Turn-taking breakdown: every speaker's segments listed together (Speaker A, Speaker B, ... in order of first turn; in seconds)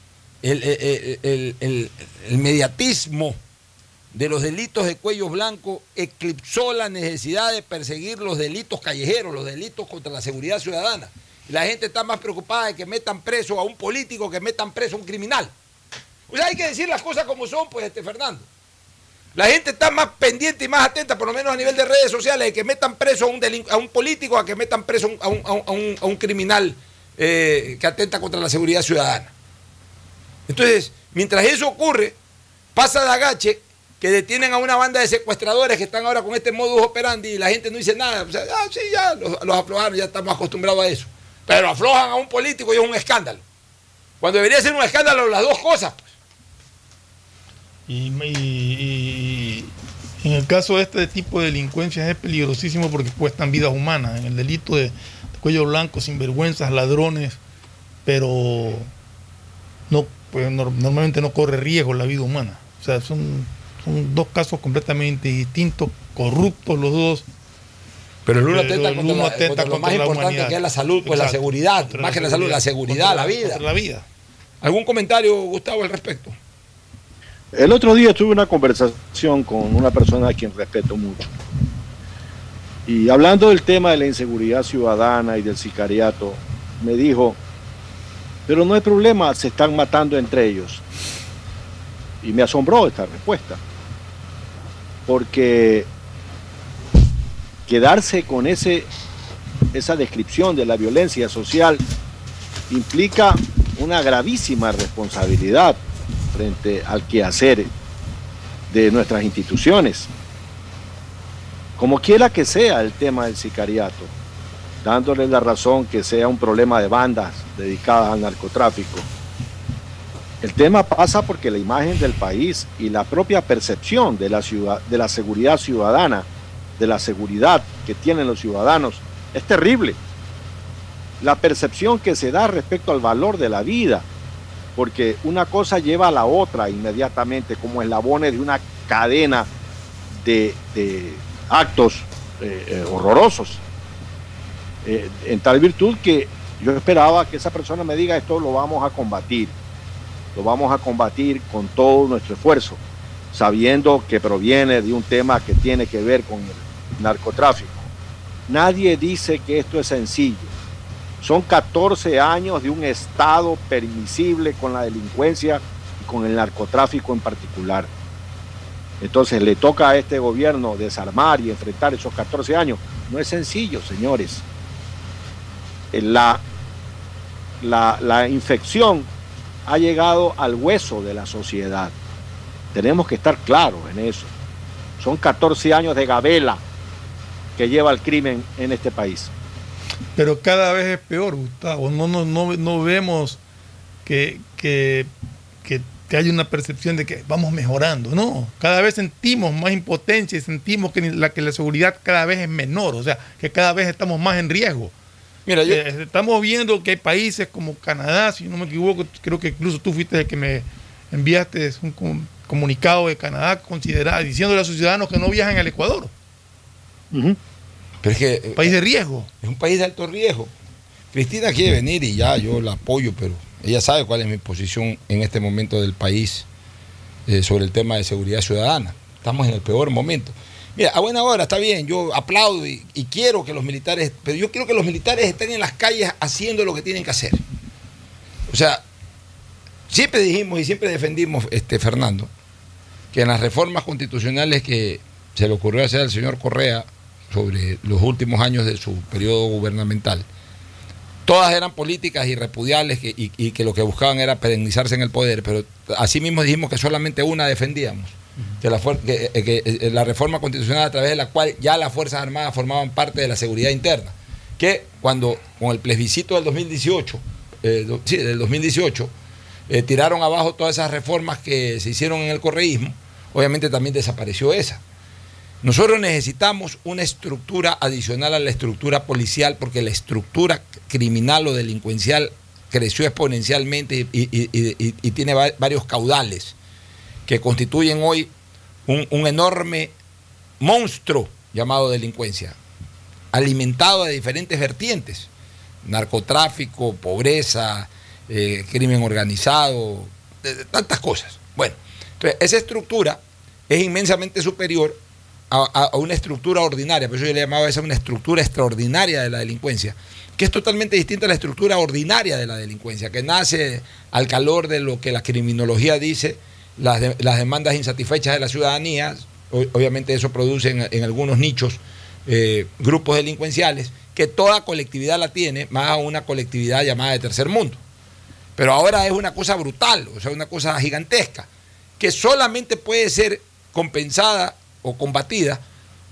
Speaker A: 0.4-3.4, 4.1-15.5, 16.3-18.5, 19.4-29.3, 30.5-32.2, 32.8-43.4, 44.2-46.1, 68.2-73.6, 74.6-76.4, 205.5-205.8, 218.0-218.8, 219.4-220.5, 221.1-226.5, 227.3-237.4, 238.5-238.8, 239.9-242.3, 243.1-250.3, 251.3-269.1, 269.7-274.8, 275.6-286.6, 287.3-288.3, 288.9-289.9, 290.6-292.6, 293.3-295.3, 295.8-327.8, 328.6-335.6
Speaker B: 47.9-49.7, 50.2-57.4, 58.1-58.9, 59.9-67.2, 68.5-74.1, 190.2-193.4, 194.1-195.1, 195.6-204.9, 205.7-216.1, 218.6-219.3
Speaker C: 77.5-81.3, 82.9-87.4, 88.5-90.8, 92.2-93.6, 95.1-95.9, 97.7-98.9, 99.7-101.8, 102.7-105.8, 106.3-107.7, 108.7-110.1, 111.8-114.1, 114.8-119.1, 120.4-126.3, 126.8-130.0, 131.2-134.1, 134.8-139.5, 140.2-143.6, 144.8-149.5, 150.3-152.8, 153.3-157.9, 158.5-160.5, 161.2-167.9, 169.0-174.4, 175.9-176.4, 177.6-179.1, 179.7-181.9, 182.7-184.3, 185.0-186.6, 187.6-189.3, 217.1-217.4